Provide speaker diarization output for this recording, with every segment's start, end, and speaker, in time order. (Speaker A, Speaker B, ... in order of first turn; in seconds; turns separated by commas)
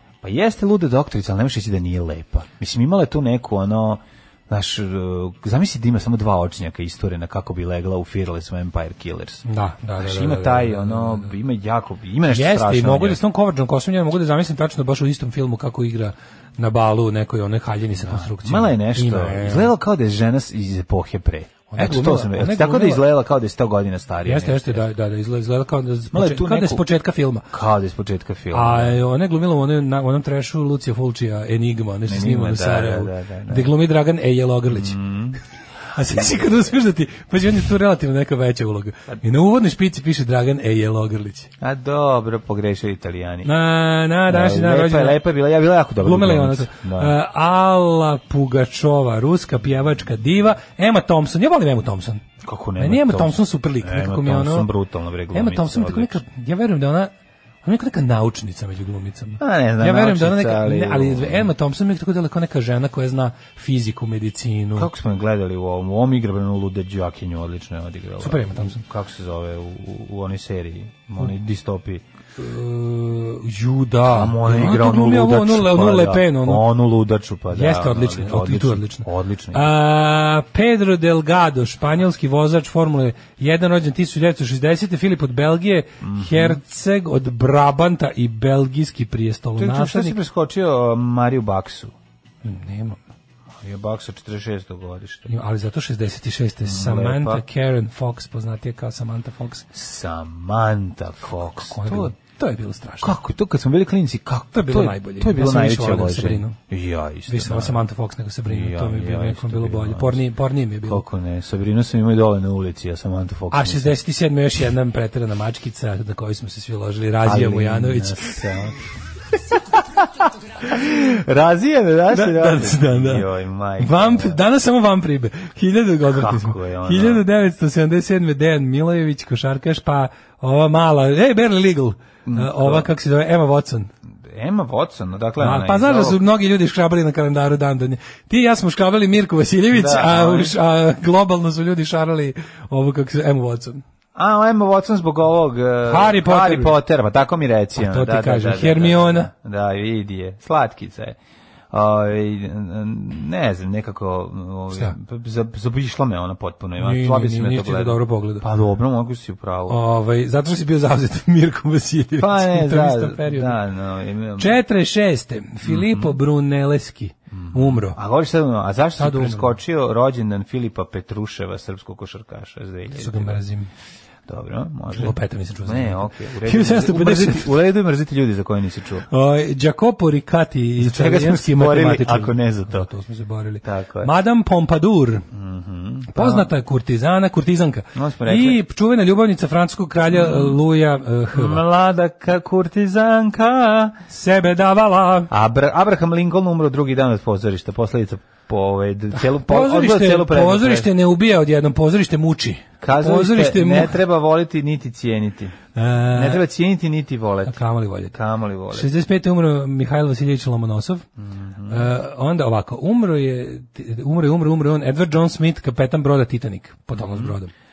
Speaker A: 0.2-9.4, Speaker B: 9.4-11.3, Speaker A: 10.0-13.2, Speaker B: 12.3-19.7, Speaker A: 18.0-24.9, Speaker B: 21.7-23.1, Speaker B: 24.2-27.5, Speaker A: 26.1-26.9, Speaker A: 27.5-29.0, Speaker B: 28.5-35.0, Speaker A: 32.1-33.7, Speaker A: 34.7-35.4, Speaker B: 35.9-41.5, Speaker A: 41.6-43.5, Speaker B: 43.4-45.2, Speaker A: 44.3-47.1, Speaker B: 46.0-52.2, Speaker A: 52.4-56.2, Speaker B: 52.8-54.7, Speaker B: 55.3-57.1, Speaker B: 57.6-64.9, Speaker A: 59.4-61.5, Speaker A: 64.8-72.0, Speaker B: 68.2-68.8, Speaker B: 72.4-76.6, Speaker A: 74.0-79.7, Speaker B: 77.5-90.2, Speaker A: 86.0-86.6, Speaker A: 89.6-91.9, Speaker B: 92.4-93.0, Speaker A: 93.5-95.3, Speaker B: 95.3-99.7, Speaker A: 96.6-97.4, Speaker A: 99.7-102.1, Speaker B: 101.7-103.2, Speaker A: 103.0-107.8, Speaker B: 104.5-106.6, Speaker B: 107.3-111.0, Speaker A: 108.5-110.2, Speaker A: 110.8-114.0, Speaker B: 113.5-118.4, Speaker A: 117.2-118.8, Speaker A: 119.3-124.4, Speaker B: 122.1-123.3, Speaker B: 123.8-133.9, Speaker A: 126.0-127.2, Speaker A: 132.2-132.9, Speaker A: 134.2-136.2, Speaker B: 135.4-143.8, Speaker A: 139.7-140.5, Speaker A: 144.1-151.2, Speaker B: 145.8-146.8, Speaker B: 147.8-149.3, Speaker A: 151.7-159.8, Speaker B: 156.8-158.4, Speaker B: 159.7-163.6, Speaker A: 162.2-164.6, Speaker B: 164.4-168.0, Speaker A: 165.6-166.2, Speaker A: 167.3-173.4, Speaker B: 169.0-169.6, Speaker B: 172.9-173.7, Speaker A: 174.3-179.1, Speaker B: 174.9-177.6, Speaker B: 179.1-185.2, Speaker A: 180.8-182.9, Speaker A: 183.6-184.1, Speaker A: 185.3-186.5, Speaker B: 186.1-191.6, Speaker A: 187.9-188.6, Speaker A: 190.1-190.6, Speaker A: 191.3-194.0, Speaker B: 194.1-195.3, Speaker A: 195.3-200.9, Speaker B: 199.1-204.0, Speaker A: 202.8-205.6, Speaker B: 205.7-206.4, Speaker A: 206.1-207.6, Speaker B: 207.4-208.2, Speaker A: 208.1-208.9, Speaker B: 208.7-211.0, Speaker A: 211.2-211.9, Speaker B: 211.7-217.5, Speaker A: 216.9-217.3